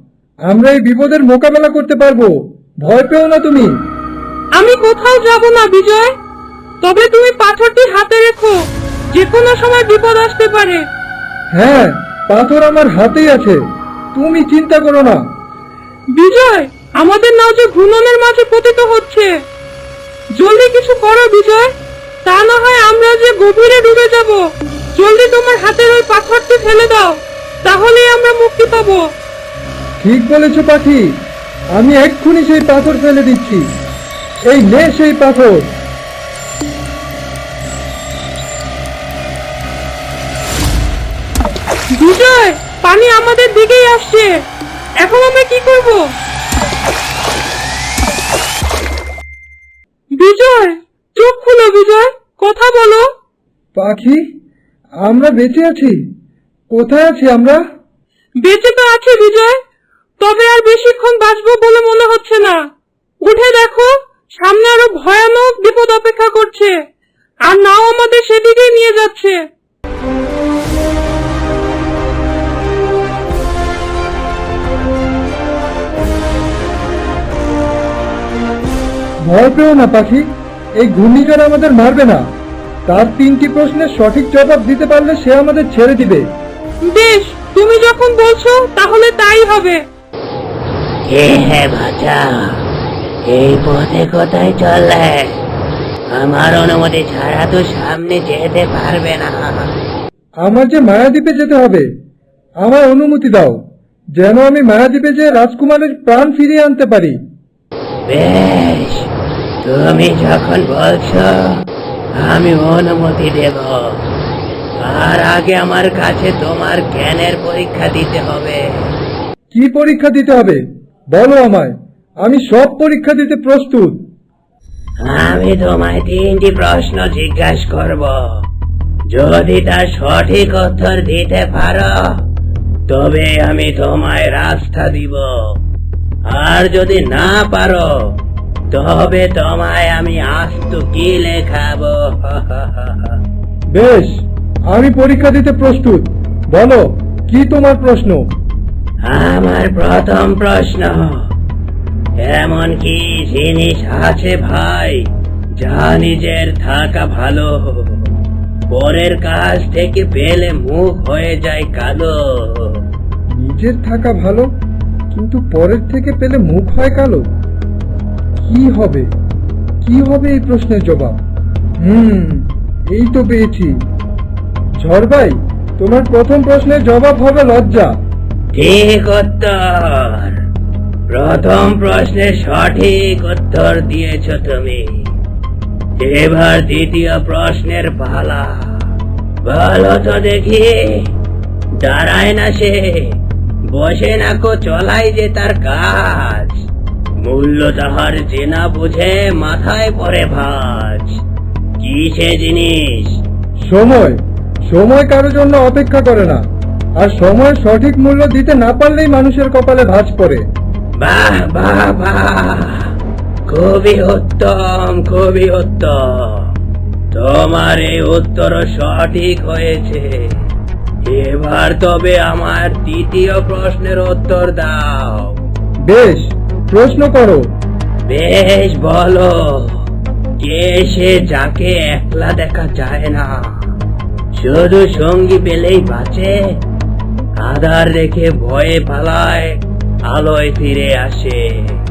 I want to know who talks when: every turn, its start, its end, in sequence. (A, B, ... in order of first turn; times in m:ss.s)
0:00.5-0:03.7 A
0:04.5-0:06.1 B
0:06.8-0:10.8 B
0:11.5-0:13.6 A
0:14.1-0:15.2 A
0:16.1-0:19.3 B
0:20.3-0:21.7 B
0:22.2-0:24.4 B
0:24.9-0:29.1 B
0:30.0-0:31.1 A
0:31.7-0:33.6 A
0:34.5-0:35.7 A
0:42.0-0:44.4 B
0:45.0-0:46.1 B
0:50.2-0:53.1 B
0:53.8-0:54.2 A
0:55.0-0:56.0 A
0:56.7-0:57.6 A
0:58.4-0:59.6 B
1:00.2-1:02.6 B
1:03.2-1:06.8 B
1:07.4-1:09.4 B
1:19.2-1:20.2 A
1:20.8-1:22.2 A
1:22.9-1:26.2 A
1:26.8-1:29.8 B
1:31.1-1:32.6 C
1:33.3-1:35.4 C
1:36.1-1:39.8 C
1:40.4-1:41.8 A
1:42.6-1:43.6 A
1:44.2-1:47.2 A
1:48.1-1:49.1 C
1:49.6-1:51.6 C
1:52.2-1:54.0 C
1:54.8-1:58.6 C
1:59.5-2:04.0 A
2:05.0-2:08.2 C
2:09.1-2:12.0 C
2:12.9-2:15.3 C
2:16.3-2:17.9 C
2:18.7-2:23.1 C
2:23.7-2:24.1 A
2:24.7-2:28.3 A
2:29.0-2:31.2 C
2:32.2-2:35.0 C
2:35.6-2:38.0 C
2:38.7-2:42.8 C
2:43.4-2:44.5 A
2:45.1-2:47.3 A
2:48.4-2:49.1 A
2:49.8-2:51.2 A
2:51.8-2:53.8 A
2:54.8-2:57.9 A
2:58.5-3:00.3 C
3:01.1-3:04.8 C
3:06.0-3:08.7 C
3:09.4-3:11.0 C
3:11.8-3:13.2 C
3:13.7-3:16.6 C
3:17.2-3:21.2 C
3:21.8-3:23.2 C
3:23.6-3:24.2 A
3:24.7-3:26.4 A
3:27.0-3:30.4 A
3:31.0-3:32.9 C
3:33.5-3:36.5 C
3:37.1-3:40.2 C
3:41.1-3:45.4 C
3:45.8-3:47.4 A
3:48.1-3:49.8 C
3:50.4-3:53.7 C
3:54.3-3:56.3 C
3:57.4-3:59.6 C
4:00.1-4:01.8 C